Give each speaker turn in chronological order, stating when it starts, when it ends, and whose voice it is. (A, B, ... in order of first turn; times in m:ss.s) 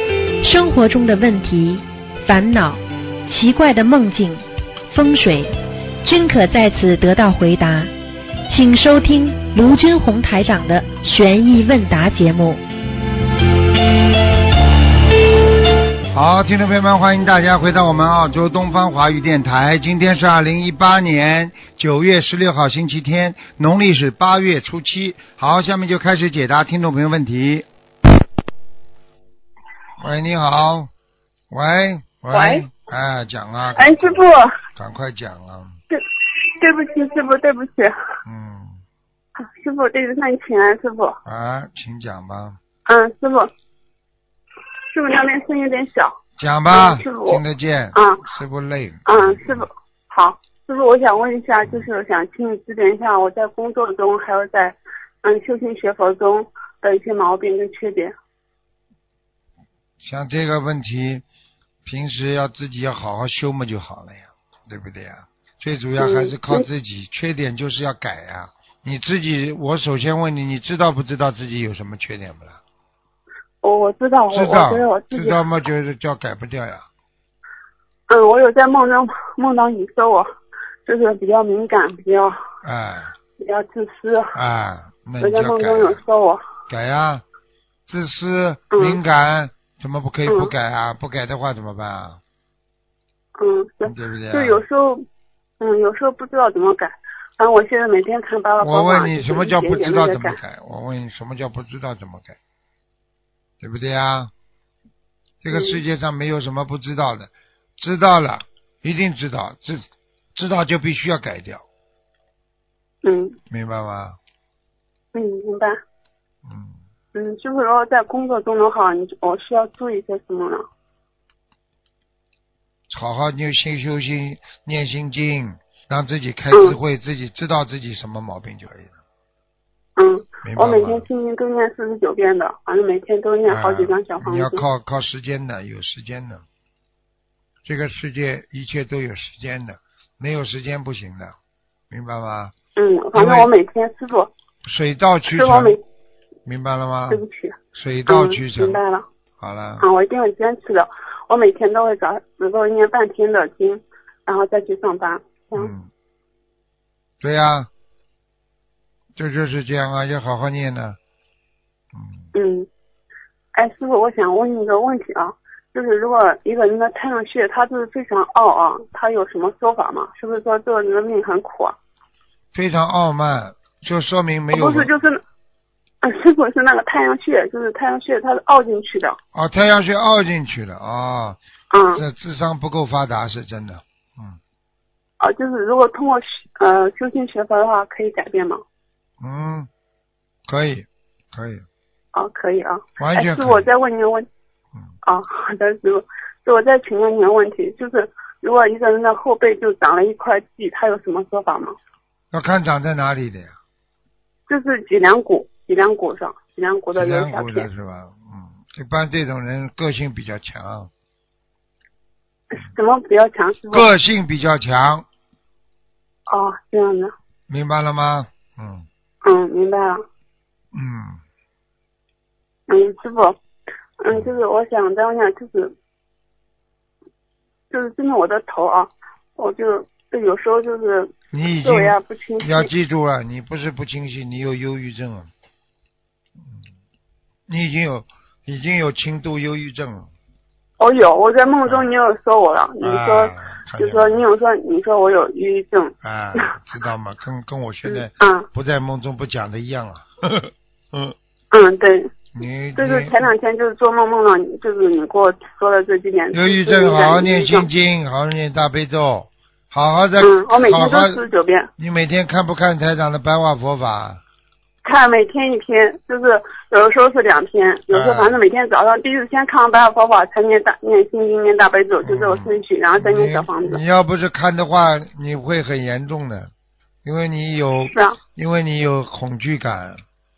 0:00.4-0:05.5 A
0:06.0-0:07.9 A
0:08.5-0:12.6 A
0:16.1-0:27.6 B
0:30.0-0:30.9 B
0:31.5-0:34.2 B
0:32.3-0:32.6 C
0:33.8-0:34.4 C
0:34.8-0:35.8 B
0:36.6-0:37.9 C
0:38.2-0:38.8 B
0:39.4-0:41.2 C
0:41.2-0:42.6 B
0:42.8-0:43.5 C
0:44.9-0:46.2 C
0:46.4-0:49.7 B
0:46.7-0:47.4 C
0:47.9-0:48.2 C
0:49.0-0:58.1 C
1:00.0-1:01.2 B
1:01.8-1:12.6 B
1:06.0-1:06.7 C
1:13.6-1:15.4 C
1:14.3-1:16.8 B
1:18.1-1:20.3 C
1:20.8-1:22.4 C
1:22.6-1:23.1 B
1:23.4-1:24.3 C
1:24.3-1:26.0 B
1:25.2-1:26.4 C
1:26.7-1:27.2 B
1:27.9-1:32.2 B
1:28.7-1:29.0 C
1:30.3-1:30.5 C
1:33.4-1:35.0 C
1:33.8-1:34.6 B
1:35.6-1:40.4 C
1:38.6-1:42.4 B
1:43.6-1:44.3 B
1:45.4-1:49.8 B
1:45.5-1:45.8 C
1:50.3-1:51.6 B
1:53.0-1:53.4 C
1:53.5-1:54.2 B
1:55.1-1:55.8 C
1:56.4-1:56.8 B
1:57.1-2:00.6 C
2:02.9-2:08.9 B
2:06.5-2:06.8 C
2:10.0-2:14.6 C
2:10.4-2:11.0 B
2:13.4-2:16.4 B
2:17.6-2:21.3 B
2:21.9-2:22.5 B
2:22.8-2:24.3 C
2:23.1-2:23.5 B
2:24.6-2:25.8 B
2:25.3-2:25.8 C
2:26.4-2:27.2 B
2:27.1-2:29.0 C
2:27.7-2:28.8 B
2:29.4-2:29.8 B
2:29.8-2:35.7 C
2:35.6-2:35.9 B
2:37.2-2:37.7 B
2:39.2-2:41.0 B
2:41.9-2:42.2 B
2:42.3-2:42.7 C
2:43.5-2:51.8 C
2:52.5-2:54.9 B
2:54.5-2:55.2 C
2:56.0-2:59.2 C
2:59.3-3:01.4 B
3:01.7-3:02.0 C
3:01.9-3:04.4 B
3:05.2-3:08.6 C
3:09.2-3:09.7 B
3:10.5-3:11.6 B
3:12.1-3:14.2 C
3:13.0-3:13.6 B
3:15.0-3:21.7 C
3:22.3-3:23.6 B
3:24.5-3:27.7 C
3:26.9-3:30.9 B
3:32.5-3:33.9 C
3:33.7-3:35.0 B
3:36.3-3:37.1 C
3:37.5-3:38.9 B
3:39.2-3:40.0 C
3:40.7-3:41.2 B
3:42.7-3:43.4 C
3:44.0-3:45.7 C
3:47.7-3:52.7 C
3:51.3-3:55.3 B
3:57.5-4:00.1 B
4:00.8-4:06.5 C
4:02.8-4:04.2 B
4:06.0-4:11.1 B
4:07.8-4:08.5 C
4:11.5-4:12.1 C
4:12.3-4:13.2 B
4:12.7-4:17.7 C
4:16.3-4:21.2 B
4:20.2-4:21.7 C
4:21.8-4:24.2 B
4:24.8-4:33.8 C
4:27.9-4:28.4 B
4:32.0-4:36.5 B
4:37.0-4:40.0 B
4:37.8-4:38.2 C